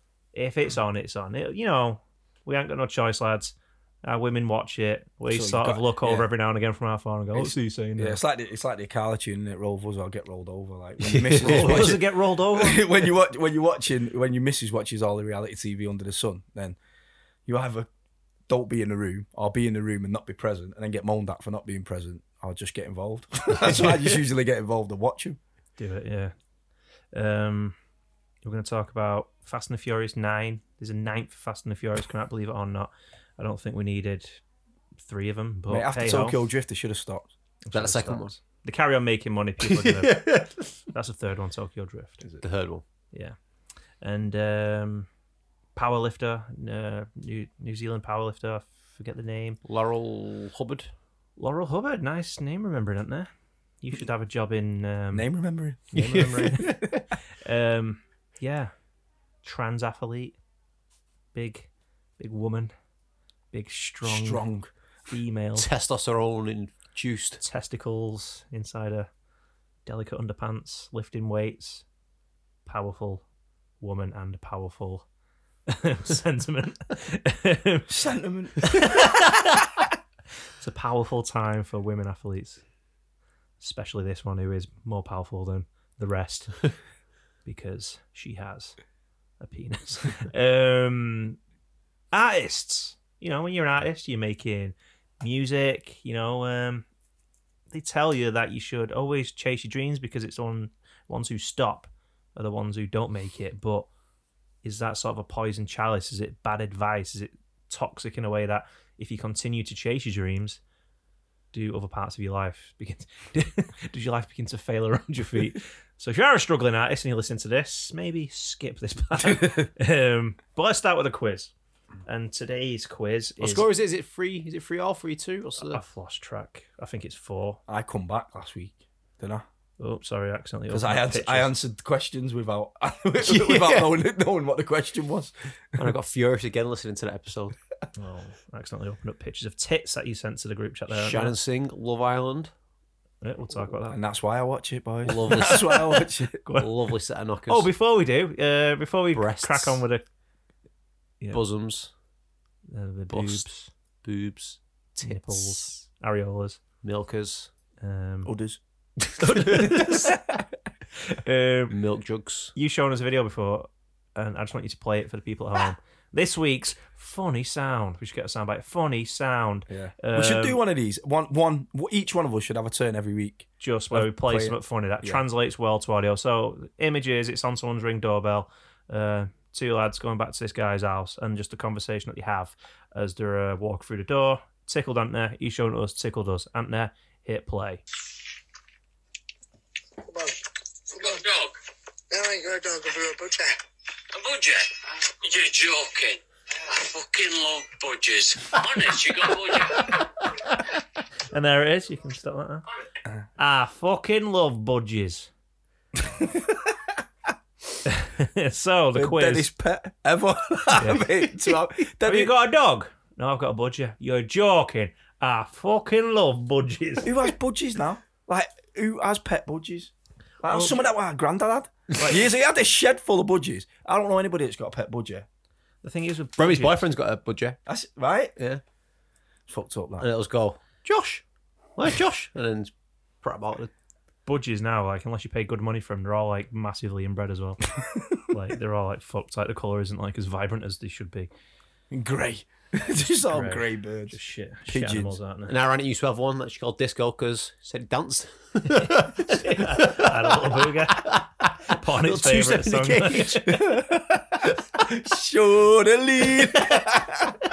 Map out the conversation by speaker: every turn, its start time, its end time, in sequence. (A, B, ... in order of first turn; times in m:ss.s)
0:00.3-0:08.2 A
0:05.3-0:06.3 B
0:07.3-0:16.8 B
0:11.0-0:13.0 A
0:17.5-0:17.9 B
0:18.5-0:25.4 B
0:25.8-0:26.3 A
0:27.1-0:27.8 A
0:28.4-0:34.4 A
0:35.0-0:36.4 A
0:35.7-0:37.3 B
0:37.6-0:42.2 A
0:37.7-0:38.3 C
0:39.6-0:40.8 C
0:42.2-0:42.8 C
0:44.0-0:45.1 A
0:45.7-0:49.6 A
0:49.7-0:50.9 C
0:51.4-0:53.3 A
0:53.8-0:55.3 A
0:55.1-0:56.4 B
0:55.9-0:58.7 A
0:55.9-0:57.0 C
0:59.4-1:00.4 A
1:01.3-1:02.7 A
1:03.5-1:04.4 A
1:04.0-1:04.7 B
1:05.1-1:05.7 A
1:05.6-1:07.4 C
1:07.4-1:09.1 A
1:09.8-1:11.8 A
1:12.6-1:13.2 A
1:13.8-1:15.0 A
1:15.7-1:17.9 A
1:17.9-1:19.3 B
1:18.7-1:19.4 A
1:20.6-1:22.6 A
1:23.6-1:26.7 A
1:27.4-1:28.8 A
1:29.4-1:31.4 A
1:32.1-1:36.8 A
1:37.7-1:43.9 A
1:44.6-1:50.6 A
1:51.5-2:01.5 A
2:02.0-2:03.7 A
2:03.4-2:05.8 C
2:05.6-2:07.6 A
2:07.7-2:09.4 B
2:09.8-2:11.5 A
2:10.7-2:15.8 B
2:13.2-2:13.9 C
2:15.8-2:17.6 C
2:17.9-2:21.3 A
2:20.9-2:22.5 C
2:23.2-2:24.0 A
2:23.9-2:26.4 B
2:25.0-2:25.9 C
2:25.3-2:26.7 A
2:26.5-2:27.7 C
2:27.5-2:30.0 A
2:29.1-2:29.8 C
2:31.3-2:31.9 C
2:32.7-2:33.7 A
2:33.1-2:33.5 C
2:34.0-2:35.8 C
2:35.0-2:36.6 A
2:36.8-2:37.5 C
2:37.8-2:38.3 A
2:38.2-2:38.6 B
2:39.1-2:40.2 A
2:39.3-2:39.9 C
2:40.1-2:40.4 B
2:41.1-2:41.7 A
2:41.7-2:42.5 C
2:42.5-2:50.6 A
2:49.7-2:55.2 B
2:53.6-3:07.8 A
3:10.0-3:10.4 D
3:10.9-3:11.6 D
3:12.1-3:13.6 D
3:14.1-3:20.0 D
3:21.3-3:22.6 A
3:23.4-3:25.3 A
3:25.9-3:26.9 B
3:27.8-3:29.5 A
3:28.9-3:32.3 B
3:30.8-3:31.1 A
3:32.0-3:37.3 A
3:37.0-3:45.3 B
3:40.5-3:40.8 A
3:45.8-3:46.9 A
3:46.4-3:47.6 C
3:47.6-3:48.3 B
3:49.5-3:50.1 B
3:50.0-3:51.2 C
3:51.8-3:52.7 C
3:53.2-3:53.7 C
3:54.2-3:57.7 A
3:57.8-3:58.1 B
3:58.2-4:01.3 A
4:01.9-4:04.2 B
4:03.2-4:05.5 A
4:04.7-4:05.2 B
4:05.5-4:13.6 C
4:08.7-4:11.1 A
4:11.6-4:13.6 A
4:13.5-4:17.3 B